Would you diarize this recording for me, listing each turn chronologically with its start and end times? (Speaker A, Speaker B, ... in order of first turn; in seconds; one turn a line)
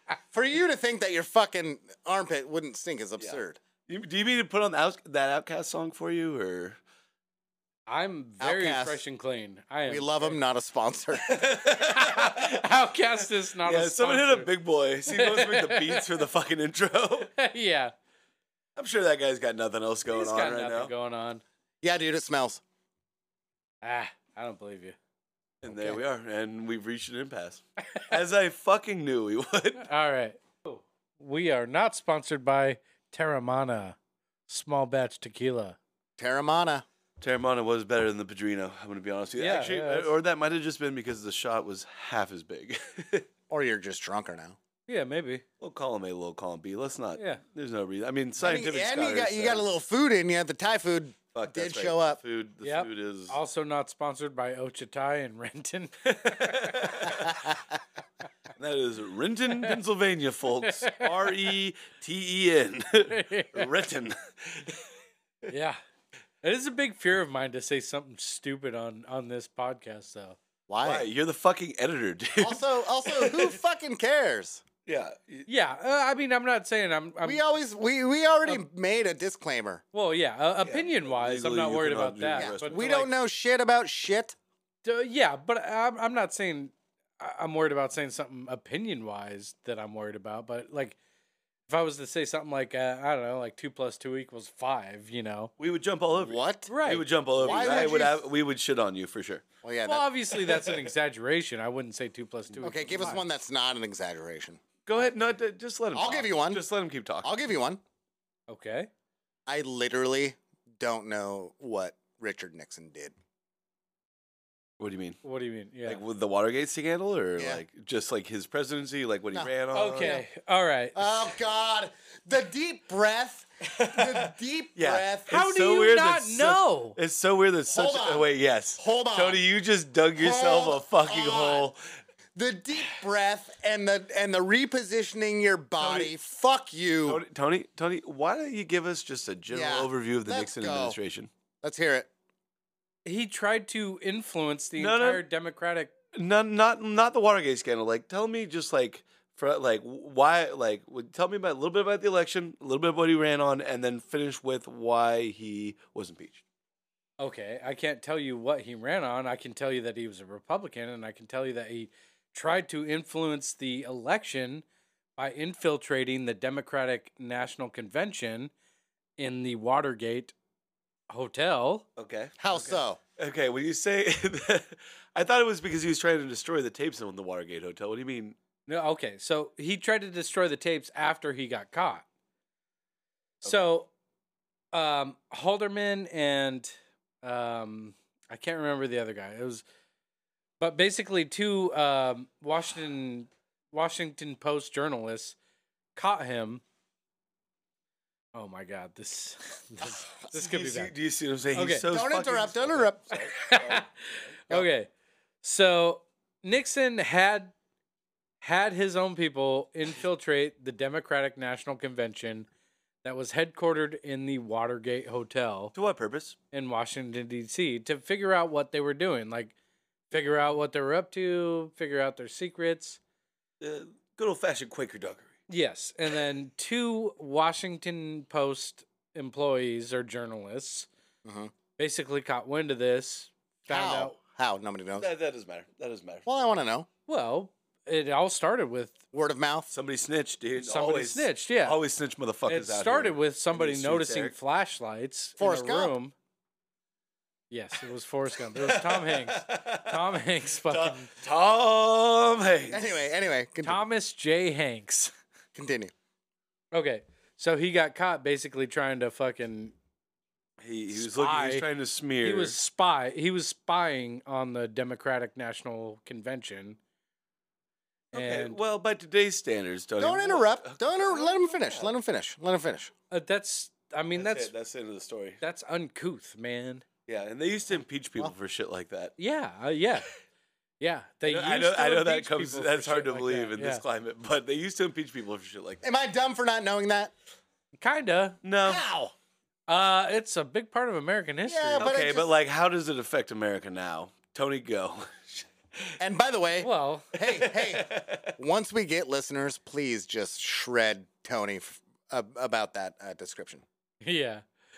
Speaker A: 0.3-3.6
Speaker B: 3.2-6.8
Speaker C: 7.9-10.4
Speaker A: 8.4-9.0
Speaker A: 9.9-11.3
Speaker B: 11.2-17.3
Speaker C: 11.7-14.5
Speaker C: 15.1-16.2
Speaker C: 17.4-17.9
Speaker B: 18.8-20.9
Speaker C: 20.1-21.4
Speaker A: 21.8-22.6
Speaker C: 23.8-24.9
Speaker B: 25.6-29.9
Speaker A: 25.7-26.0
Speaker C: 29.8-34.0
Speaker C: 34.5-35.8
Speaker A: 36.2-36.8
Speaker B: 37.2-43.3
Speaker C: 39.4-40.1
Speaker A: 43.5-44.6
Speaker C: 44.9-45.4
Speaker B: 45.6-49.6
Speaker C: 47.2-47.4
Speaker A: 48.4-52.2
Speaker B: 51.3-53.4
Speaker C: 52.6-57.4
Speaker B: 56.0-57.3
Speaker B: 58.5-64.8
Speaker C: 60.6-61.2
Speaker C: 63.1-63.7
Speaker C: 65.5-65.8
Speaker C: 66.4-70.4
Speaker A: 70.7-71.1
Speaker B: 70.8-73.6
Speaker A: 72.4-74.6
Speaker B: 74.8-75.5
Speaker C: 75.5-77.4
Speaker A: 77.2-79.8
Speaker C: 79.9-83.1
Speaker B: 80.6-82.7
Speaker A: 82.3-84.3
Speaker C: 84.8-91.0
Speaker C: 91.7-95.5
Speaker B: 95.6-99.4
Speaker A: 96.1-96.7
Speaker C: 96.7-97.1
Speaker A: 97.4-98.2
Speaker A: 99.6-100.0
Speaker C: 99.8-103.2
Speaker B: 100.5-100.9
Speaker A: 102.6-104.6
Speaker B: 104.8-107.3
Speaker A: 105.9-106.6
Speaker A: 107.2-107.8
Speaker C: 108.5-108.9
Speaker A: 109.5-113.1
Speaker B: 114.8-115.2
Speaker C: 115.2-116.0
Speaker B: 115.8-120.2
Speaker A: 117.4-117.6
Speaker A: 119.3-120.2
Speaker C: 119.7-121.0
Speaker A: 120.9-125.3
Speaker B: 123.6-131.8
Speaker C: 125.3-127.0
Speaker A: 127.7-129.4
Speaker A: 130.2-131.7
Speaker A: 132.3-137.2
Speaker B: 135.8-136.1
Speaker B: 137.1-141.3
Speaker A: 139.5-141.0
Speaker A: 141.6-142.1
Speaker C: 143.0-145.9
Speaker B: 144.8-145.2
Speaker B: 146.1-156.4
Speaker C: 157.2-164.6
Speaker C: 165.2-168.5
Speaker C: 169.2-170.3
Speaker C: 171.1-171.8
Speaker B: 172.0-178.4
Speaker A: 172.4-173.0
Speaker C: 178.7-182.0
Speaker C: 183.4-183.9
Speaker C: 184.7-186.7
Speaker C: 187.2-189.6
Speaker C: 190.6-195.3
Speaker C: 195.9-196.6
Speaker C: 198.3-200.9
Speaker B: 200.3-204.6
Speaker C: 201.5-201.8
Speaker A: 201.9-203.1
Speaker C: 203.3-204.9
Speaker C: 205.4-207.5
Speaker C: 208.4-212.5
Speaker C: 213.0-215.7
Speaker B: 215.7-216.4
Speaker C: 216.5-219.5
Speaker C: 220.1-223.0
Speaker B: 223.6-225.3
Speaker C: 225.5-230.9
Speaker A: 231.2-231.5
Speaker C: 231.8-234.1
Speaker A: 233.7-235.1
Speaker B: 235.0-236.3
Speaker A: 236.2-236.9
Speaker C: 237.1-239.0
Speaker A: 239.1-239.7
Speaker B: 239.7-244.3
Speaker C: 240.6-241.8
Speaker C: 242.5-246.1
Speaker A: 245.4-245.9
Speaker C: 247.5-251.1
Speaker B: 248.5-252.9
Speaker A: 252.7-253.8
Speaker C: 253.6-255.1
Speaker A: 255.5-255.9
Speaker C: 256.7-259.7
Speaker B: 260.6-262.6
Speaker C: 260.9-261.6
Speaker C: 262.2-266.8
Speaker C: 268.1-268.6
Speaker B: 268.1-271.9
Speaker A: 270.0-272.9
Speaker C: 273.1-274.5
Speaker B: 274.1-275.4
Speaker C: 275.4-276.9
Speaker B: 277.1-279.1
Speaker C: 279.2-280.1
Speaker C: 280.8-283.8
Speaker B: 281.2-285.8
Speaker A: 285.8-287.1
Speaker C: 287.8-288.4
Speaker B: 288.4-288.8
Speaker A: 288.6-289.1
Speaker C: 289.7-291.9
Speaker A: 291.4-292.3
Speaker B: 291.8-295.9
Speaker A: 296.0-303.6
Speaker C: 296.6-297.1
Speaker B: 297.2-298.3
Speaker C: 304.0-304.4